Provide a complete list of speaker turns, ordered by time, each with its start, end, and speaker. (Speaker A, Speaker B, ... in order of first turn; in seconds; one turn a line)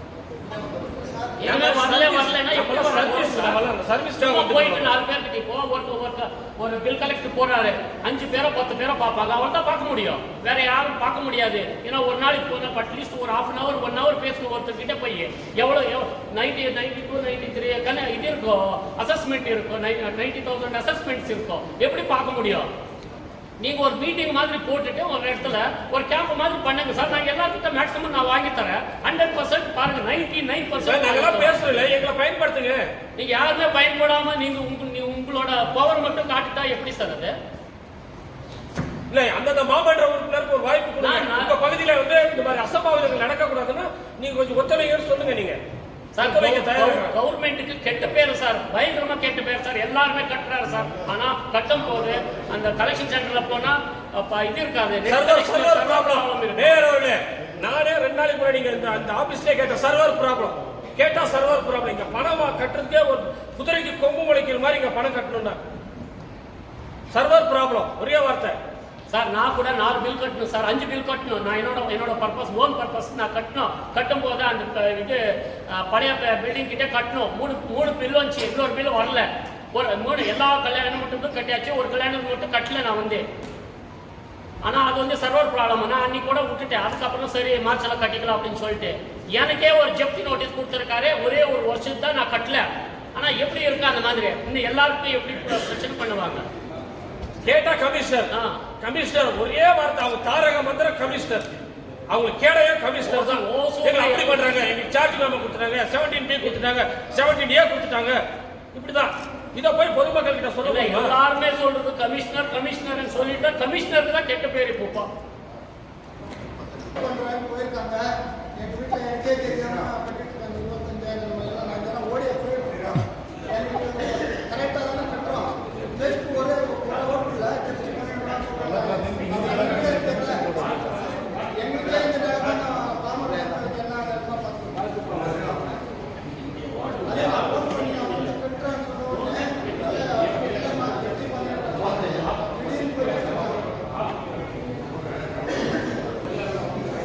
Speaker A: 1.4-3.6
Speaker B: 1.4-4.9
Speaker A: 4.2-22.7
Speaker A: 23.6-31.6
Speaker B: 30.8-32.9
Speaker A: 33.2-37.3
Speaker B: 39.1-45.6
Speaker A: 41.0-41.6
Speaker A: 46.2-56.9
Speaker B: 46.2-47.1
Speaker B: 55.0-65.6
Speaker B: 67.1-68.6
Speaker A: 69.1-83.2
Speaker A: 84.6-96.5
Speaker B: 97.5-101.5
Speaker A: 98.3-98.6
Speaker B: 102.1-108.2
Speaker A: 103.0-104.6
Speaker B: 108.7-111.2
Speaker A: 110.6-115.1
Speaker C: 117.0-118.0
Speaker C: 118.6-123.0
Speaker C: 123.5-130.8
Speaker C: 131.6-134.8
Speaker C: 137.1-143.6